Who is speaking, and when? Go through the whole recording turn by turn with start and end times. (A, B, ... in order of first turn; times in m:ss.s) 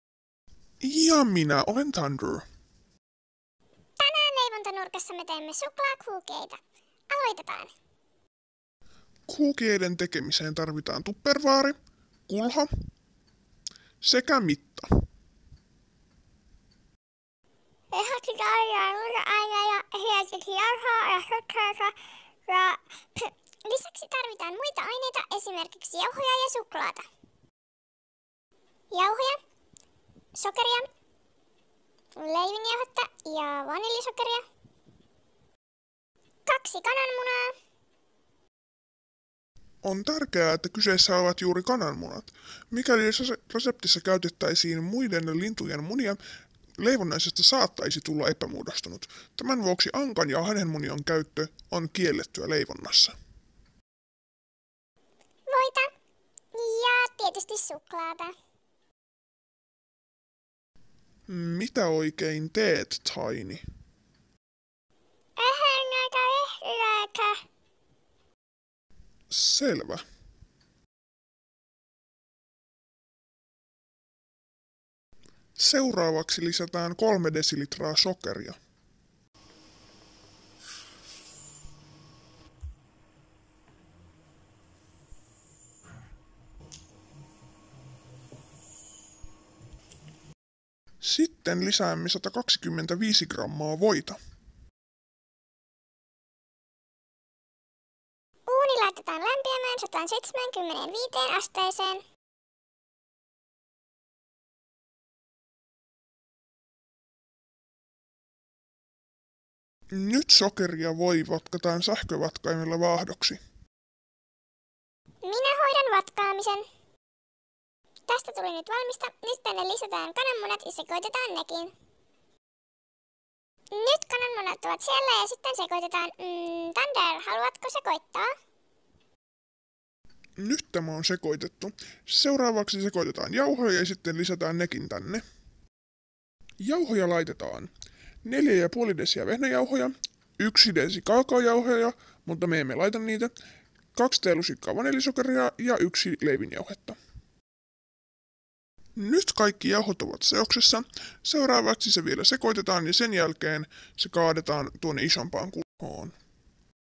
0:00.8-0:02.4 A
0:04.0-0:07.7 B
0:09.3-0:11.8 A
0:12.3-0:12.7 A
0:14.0-0:15.0 A
0:17.9-0:27.0 B
0:28.9-0:29.4 B
0:30.4-0:30.9 B
0:32.1-0:34.4 B
0:36.4-0:37.5 B
0:39.8-0:46.2 A
0:46.8-0:53.2 A
0:55.5-0:55.9 B
0:56.5-0:58.3 B
1:01.3-1:03.6 A
1:05.4-1:07.4 B
1:09.3-1:10.0 A
1:15.6-1:18.6 A
1:31.0-1:34.2 A
1:38.5-1:42.0 B
1:49.9-1:53.4 A
1:55.2-1:56.6 B
1:58.1-2:01.7 B
2:03.7-2:08.3 B
2:10.4-2:15.2 A
2:16.6-2:17.7 A
2:18.2-2:23.3 A
2:23.9-2:27.0 A
2:29.0-2:36.2 A